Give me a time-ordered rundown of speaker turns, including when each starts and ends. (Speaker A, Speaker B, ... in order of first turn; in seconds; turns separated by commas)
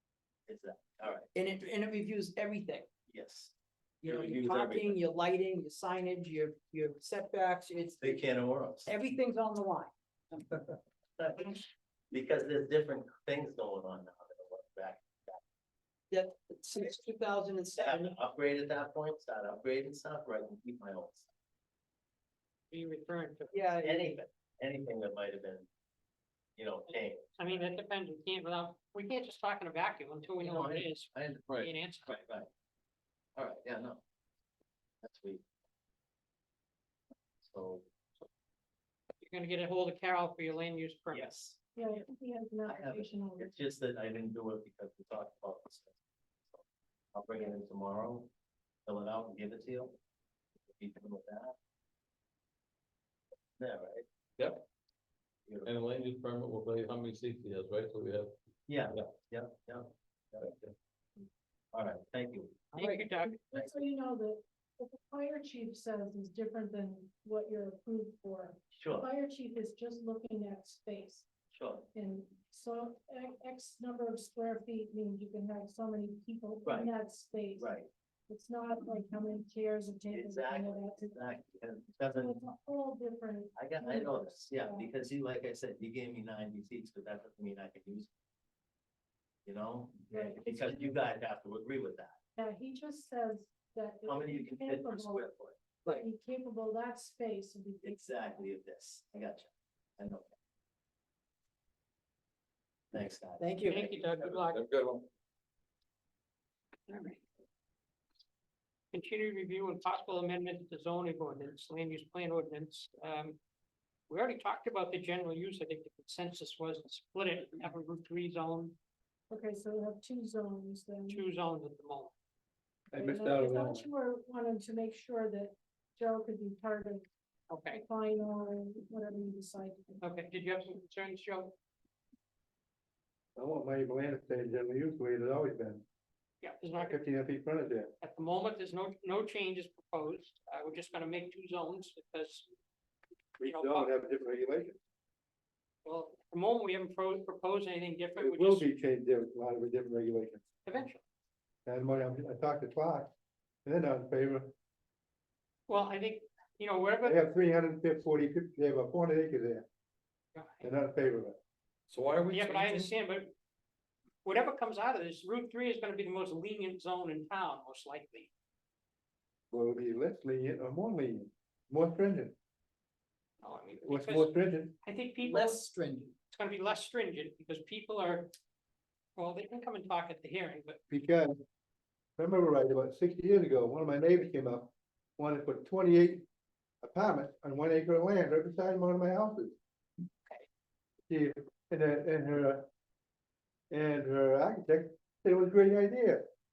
Speaker A: 0.5-1.3, Speaker B: 1.3-2.9, Speaker A: 3.1-5.0, Speaker B: 4.0-8.2, Speaker A: 8.0-8.9, Speaker B: 8.9-10.5, Speaker A: 11.2-11.6, Speaker A: 12.1-15.4, Speaker B: 16.1-18.1, Speaker A: 17.7-21.3, Speaker C: 22.7-23.6, Speaker B: 23.5-24.1, Speaker A: 23.8-25.7, Speaker A: 26.6-27.6, Speaker C: 26.9-32.1, Speaker A: 30.4-31.5, Speaker A: 32.1-32.5, Speaker A: 33.4-34.0, Speaker A: 35.0-35.4, Speaker A: 37.4-37.9, Speaker C: 39.2-41.3, Speaker A: 41.1-41.6, Speaker D: 41.8-43.7, Speaker A: 42.7-46.0, Speaker A: 47.1-48.3, Speaker A: 48.9-50.0, Speaker A: 50.7-51.6, Speaker A: 53.6-54.0, Speaker E: 54.4-54.6, Speaker A: 55.5-55.7, Speaker E: 55.6-58.3, Speaker A: 58.7-60.5, Speaker E: 60.4-60.7, Speaker A: 61.7-62.7, Speaker C: 62.7-63.4, Speaker B: 62.8-63.2, Speaker D: 63.2-71.3, Speaker A: 68.7-69.1, Speaker A: 71.5-71.9, Speaker D: 72.0-77.7, Speaker A: 76.7-76.9, Speaker A: 77.6-77.9, Speaker D: 78.3-81.3, Speaker A: 80.1-82.4, Speaker D: 82.2-84.9, Speaker A: 83.5-88.1, Speaker A: 89.5-92.2, Speaker D: 90.1-90.9, Speaker D: 92.4-95.3, Speaker A: 94.1-95.6, Speaker D: 96.0-98.5, Speaker A: 97.8-100.3, Speaker A: 102.9-104.0, Speaker B: 103.4-103.8, Speaker C: 103.7-104.6, Speaker E: 104.2-105.1, Speaker C: 106.9-107.2, Speaker C: 108.9-113.4, Speaker C: 114.1-118.8, Speaker D: 119.3-121.3, Speaker C: 121.1-122.1, Speaker F: 122.9-123.9, Speaker D: 122.9-127.1, Speaker C: 127.5-127.8, Speaker D: 127.7-130.0, Speaker C: 130.0-131.6, Speaker F: 133.4-135.8, Speaker C: 136.4-136.9, Speaker F: 136.8-137.9, Speaker C: 138.0-142.5, Speaker F: 143.4-144.8, Speaker C: 143.4-143.9, Speaker C: 145.8-148.7, Speaker F: 148.2-150.4, Speaker C: 150.7-151.0, Speaker F: 151.7-153.1, Speaker F: 153.7-154.5, Speaker C: 155.7-157.2, Speaker F: 157.0-159.7, Speaker C: 160.3-160.6, Speaker F: 160.6-161.4, Speaker E: 161.9-162.9, Speaker C: 162.3-163.3, Speaker C: 164.2-168.3, Speaker F: 169.5-172.3, Speaker C: 173.4-175.6, Speaker F: 173.8-174.8, Speaker B: 175.2-176.2, Speaker C: 176.3-178.3, Speaker C: 179.2-180.8, Speaker F: 180.9-181.4, Speaker F: 182.2-186.2, Speaker F: 186.8-189.5, Speaker F: 191.1-192.7, Speaker F: 193.7-196.3